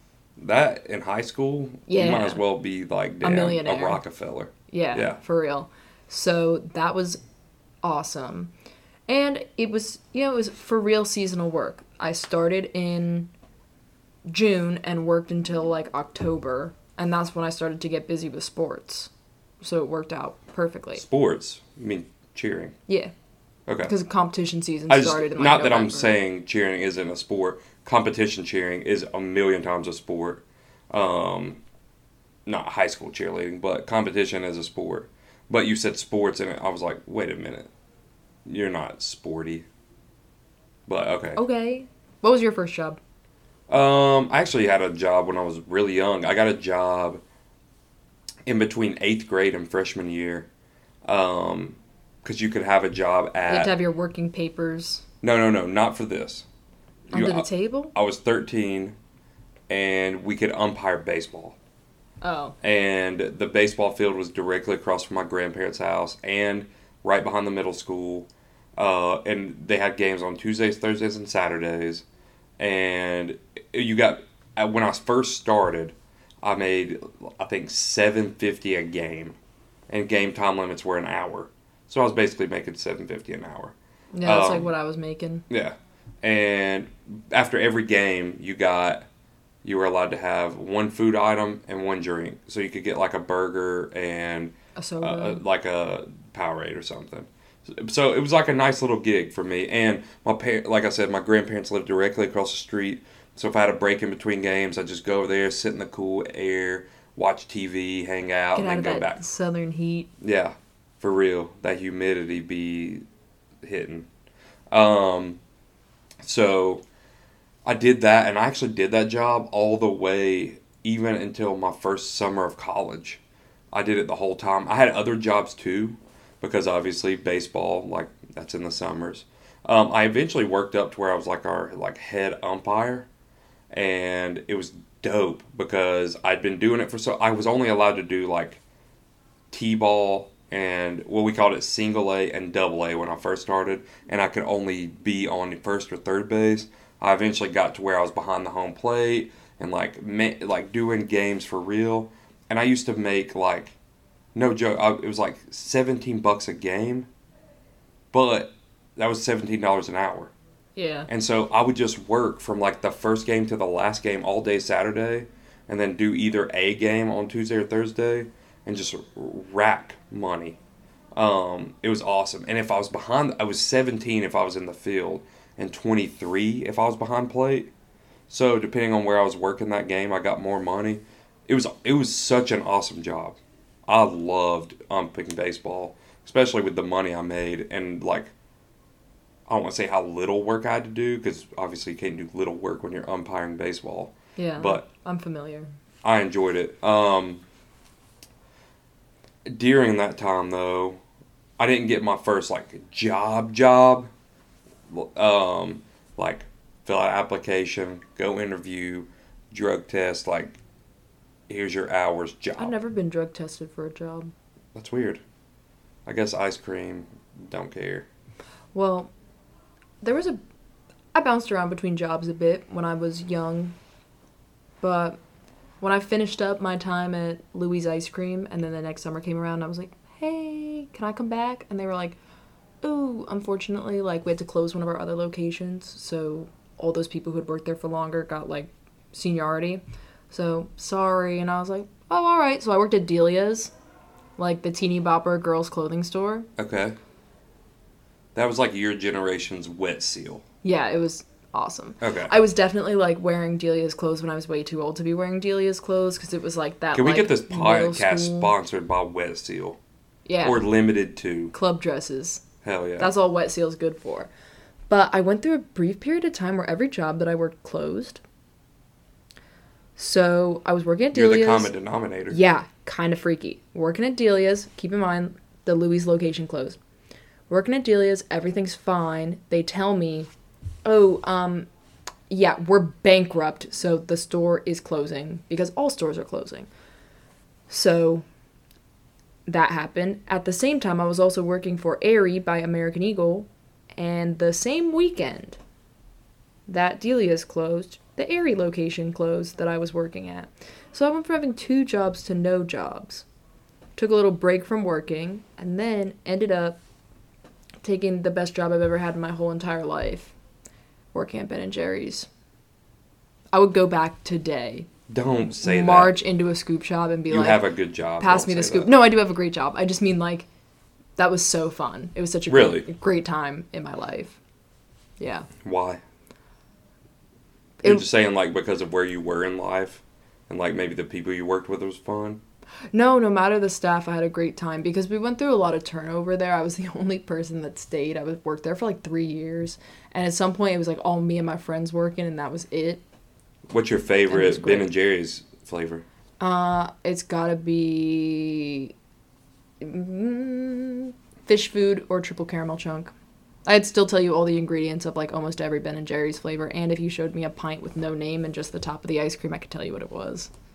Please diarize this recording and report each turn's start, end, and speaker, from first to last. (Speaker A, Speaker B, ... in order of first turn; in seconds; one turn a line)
Speaker A: 0.4-5.2
Speaker B: 1.9-2.4
Speaker B: 3.2-4.0
Speaker B: 4.7-7.2
Speaker B: 7.8-8.5
Speaker B: 9.1-13.3
Speaker B: 14.3-21.0
Speaker A: 20.9-22.8
Speaker B: 22.9-23.1
Speaker A: 23.7-23.9
Speaker B: 23.9-26.2
Speaker A: 24.9-31.6
Speaker A: 32.5-37.7
Speaker A: 38.5-39.7
Speaker A: 40.9-41.4
Speaker B: 41.4-43.0
Speaker A: 43.7-47.2
Speaker A: 48.5-50.5
Speaker A: 51.1-53.7
Speaker B: 53.5-55.0
Speaker A: 55.2-56.5
Speaker A: 57.1-59.0
Speaker B: 57.1-57.9
Speaker A: 59.7-61.6
Speaker B: 62.2-62.5
Speaker A: 62.6-72.0
Speaker A: 72.6-79.4
Speaker A: 79.9-84.7
Speaker B: 84.1-85.5
Speaker A: 85.5-89.1
Speaker A: 89.6-109.2
Speaker B: 94.8-95.4
Speaker B: 108.5-110.1
Speaker A: 110.2-113.0
Speaker A: 113.6-114.1
Speaker A: 114.7-115.4
Speaker A: 116.2-116.8
Speaker A: 117.7-123.2
Speaker A: 123.7-133.1
Speaker A: 133.7-138.6
Speaker A: 139.5-153.8
Speaker A: 154.3-157.1
Speaker A: 158.1-160.3
Speaker B: 160.8-161.1
Speaker A: 161.1-170.6
Speaker A: 171.2-177.7
Speaker A: 178.3-188.3
Speaker A: 189.5-194.8
Speaker B: 194.4-195.7
Speaker A: 196.0-197.4
Speaker A: 199.5-201.0
Speaker A: 201.6-204.1
Speaker A: 204.9-210.6
Speaker A: 211.5-212.8
Speaker B: 212.6-214.3
Speaker A: 214.8-215.2
Speaker A: 216.1-218.1
Speaker B: 218.7-219.1
Speaker B: 220.0-220.4
Speaker B: 221.1-223.8
Speaker B: 224.8-225.2
Speaker B: 225.8-232.2
Speaker B: 232.8-243.7
Speaker B: 244.4-246.5
Speaker A: 246.6-247.0
Speaker A: 248.3-250.4
Speaker B: 250.6-258.5
Speaker A: 252.0-252.3
Speaker A: 256.9-259.8
Speaker B: 260.3-260.6
Speaker A: 260.4-261.5
Speaker B: 261.5-262.4
Speaker A: 262.6-263.1
Speaker B: 263.0-264.3
Speaker B: 264.9-268.2
Speaker B: 270.0-271.7
Speaker A: 271.1-272.4
Speaker B: 272.3-276.8
Speaker B: 277.5-280.3
Speaker B: 280.9-281.7
Speaker B: 282.3-286.7
Speaker B: 287.7-288.3
Speaker B: 289.5-295.6
Speaker B: 296.7-303.2
Speaker B: 304.0-306.8
Speaker B: 307.8-310.3
Speaker B: 311.1-312.3
Speaker B: 313.5-314.9
Speaker A: 315.1-316.2
Speaker B: 315.6-317.6
Speaker A: 317.3-318.9
Speaker B: 318.2-320.5
Speaker B: 321.2-324.4
Speaker A: 322.5-322.9
Speaker B: 325.2-325.5
Speaker A: 325.6-326.0
Speaker A: 327.8-332.4
Speaker B: 332.9-343.0
Speaker A: 343.7-346.1
Speaker B: 344.3-344.9
Speaker B: 346.4-348.9
Speaker B: 349.8-353.1
Speaker B: 353.7-360.5